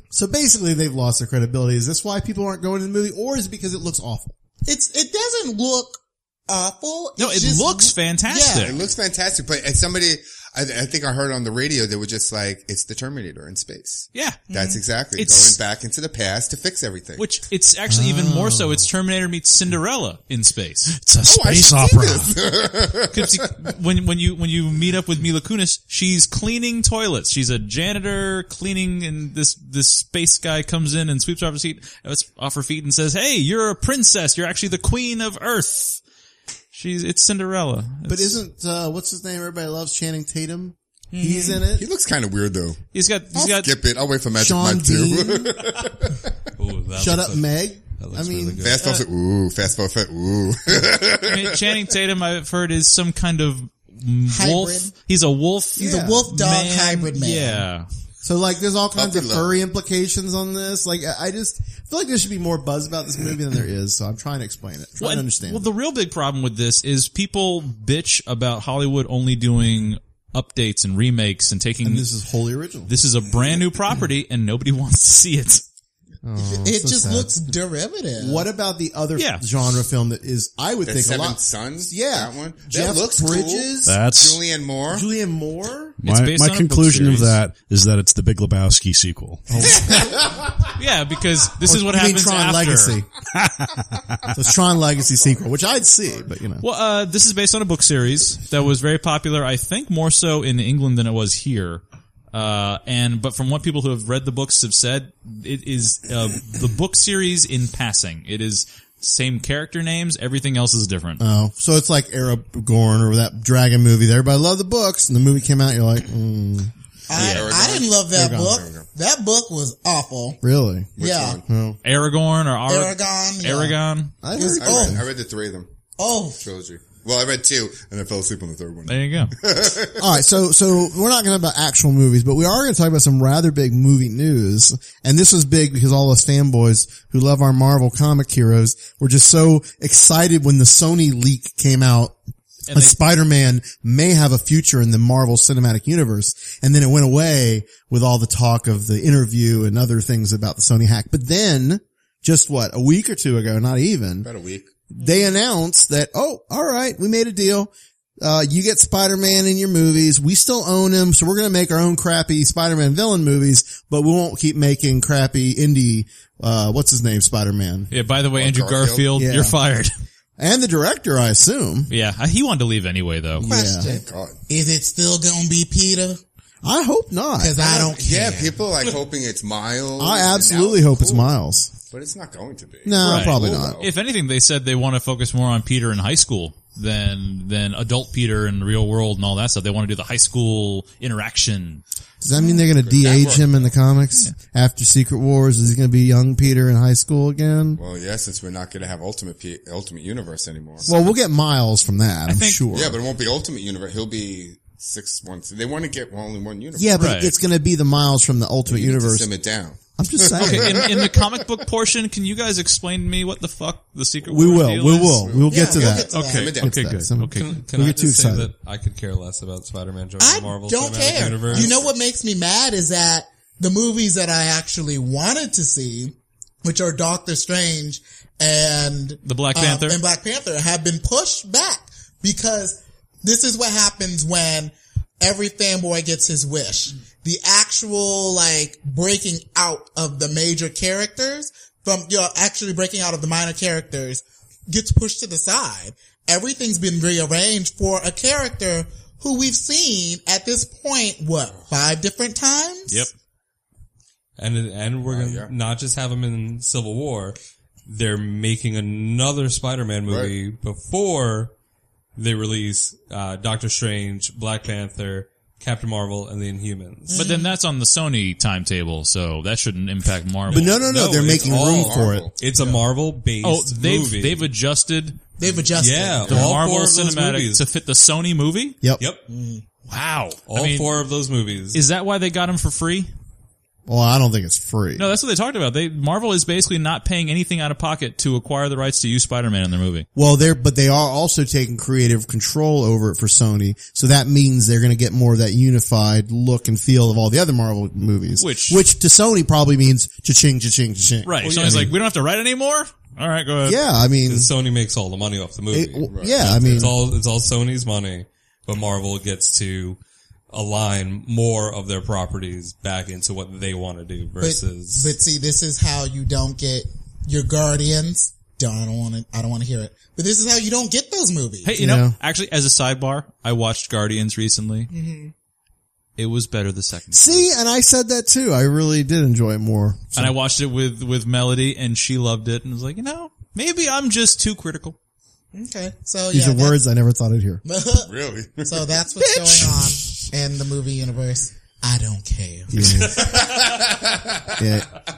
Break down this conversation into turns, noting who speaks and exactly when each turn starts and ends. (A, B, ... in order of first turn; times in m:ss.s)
0:00.1-0:04.3 A
0:04.6-0:08.8 B
0:07.2-0:08.8 C
0:08.6-0:17.3 D
0:14.1-0:14.4 C
0:14.5-0:14.8 B
0:15.2-0:15.6 C
0:17.2-0:20.9 C
0:17.9-0:18.9 A
0:20.9-0:22.4 E
0:21.2-0:23.5 D
0:23.1-0:36.0 C
0:36.7-0:38.4 C
0:38.1-0:41.9 A
0:41.1-0:41.6 B
0:41.7-0:42.8 D
0:42.9-0:43.7 C
0:43.4-0:46.3 D
0:44.4-0:45.6 A
0:46.6-0:48.8 F
0:47.0-0:48.6 A
0:48.6-0:51.6 D
0:51.2-0:57.9 C
0:54.3-0:54.9 B
0:55.8-0:57.6 B
0:58.2-1:05.7 A
0:59.0-0:59.5 D
1:05.0-1:12.1 C
1:11.8-1:12.9 A
1:12.9-1:15.6 C
1:16.2-1:17.3 A
1:16.4-1:18.5 B
1:18.2-1:24.0 A
1:19.2-1:19.4 C
1:20.8-1:25.1 D
1:23.8-1:24.6 E
1:24.9-1:26.0 A
1:26.0-1:29.7 E
1:26.0-1:27.4 C
1:29.5-1:30.3 A
1:29.9-1:30.5 D
1:30.8-1:33.0 C
1:31.6-1:33.1 A
1:33.4-1:33.8 E
1:34.3-1:36.6 A
1:36.6-1:51.2 C
1:51.2-1:56.7 A
1:57.1-2:00.4 B
1:57.1-1:58.9 D
1:57.2-1:57.5 C
1:58.1-1:58.6 A
2:00.4-2:01.8 A
2:01.0-2:01.4 D
2:01.0-2:01.4 B
2:01.8-2:04.1 C
2:02.7-2:03.8 B
2:04.2-2:05.0 A
2:04.3-2:05.0 B
2:04.4-2:05.7 D
2:06.0-2:06.4 B
2:06.4-2:10.1 D
2:08.9-2:09.3 C
2:10.0-2:22.2 A
2:22.7-2:23.0 C
2:22.7-2:34.3 A
2:34.2-2:34.7 D
2:34.9-2:37.7 A
2:35.0-2:35.3 B
2:38.2-2:47.9 A
2:47.9-2:49.9 C
2:48.3-2:49.1 D
2:49.2-2:49.6 A
2:50.4-2:51.9 A
2:51.9-2:53.4 C
2:53.4-2:53.9 A
2:53.4-2:56.2 B
2:53.8-2:54.4 D
2:56.6-2:57.7 A
2:57.4-2:58.7 B
2:57.6-3:01.3 D
3:00.0-3:01.7 A
3:01.9-3:03.9 D
3:02.8-3:03.8 A
3:03.0-3:11.8 C
3:12.2-3:17.8 A
3:12.7-3:13.7 D
3:17.8-3:20.9 D
3:20.9-3:23.0 A
3:22.3-3:22.6 C
3:22.7-3:27.1 D
3:26.8-3:29.3 A
3:27.0-3:27.3 C
3:28.7-3:31.4 D
3:30.0-3:30.8 A
3:30.4-3:35.3 C
3:34.2-3:38.5 A
3:35.2-3:36.8 D
3:35.5-3:36.6 B
3:36.1-3:37.6 C
3:37.2-3:41.7 F
3:40.2-4:13.1 B
3:41.5-3:41.9 D
3:49.2-3:50.0 C
4:14.4-4:21.5 F
4:15.1-4:15.5 D
4:20.1-4:20.3 D
4:22.2-4:27.2 F
4:27.1-4:27.5 B
4:27.1-4:30.7 C
4:30.5-4:32.3 A
4:30.5-4:34.5 F
4:30.6-4:32.4 D
4:33.4-4:35.2 C
4:35.4-4:36.4 B
4:35.8-4:37.6 F
4:36.3-4:38.8 C
4:39.3-4:39.6 B
4:39.9-4:40.9 C
4:40.5-4:41.8 F
4:41.7-4:43.1 C
4:43.9-4:45.1 A
4:45.0-4:50.1 C
4:50.2-5:01.9 A
4:58.4-4:58.8 C
5:01.2-5:03.8 C
5:01.4-5:01.9 F
5:03.6-5:04.5 A
5:04.3-5:10.0 F
5:05.7-5:06.9 A
5:06.1-5:06.9 D
5:10.5-5:15.1 F
5:14.4-5:21.7 B
5:21.6-5:24.9 C
5:21.7-5:22.2 A
5:24.9-5:25.3 B
5:26.2-5:27.5 C
5:27.1-5:30.4 A
5:30.2-5:35.0 C
5:35.5-5:36.8 B
5:36.3-5:37.6 A
5:37.6-5:38.1 B
5:38.0-5:38.9 D
5:38.6-5:43.1 B
5:42.7-5:43.3 A
5:43.1-5:44.6 D
5:44.6-5:44.9 A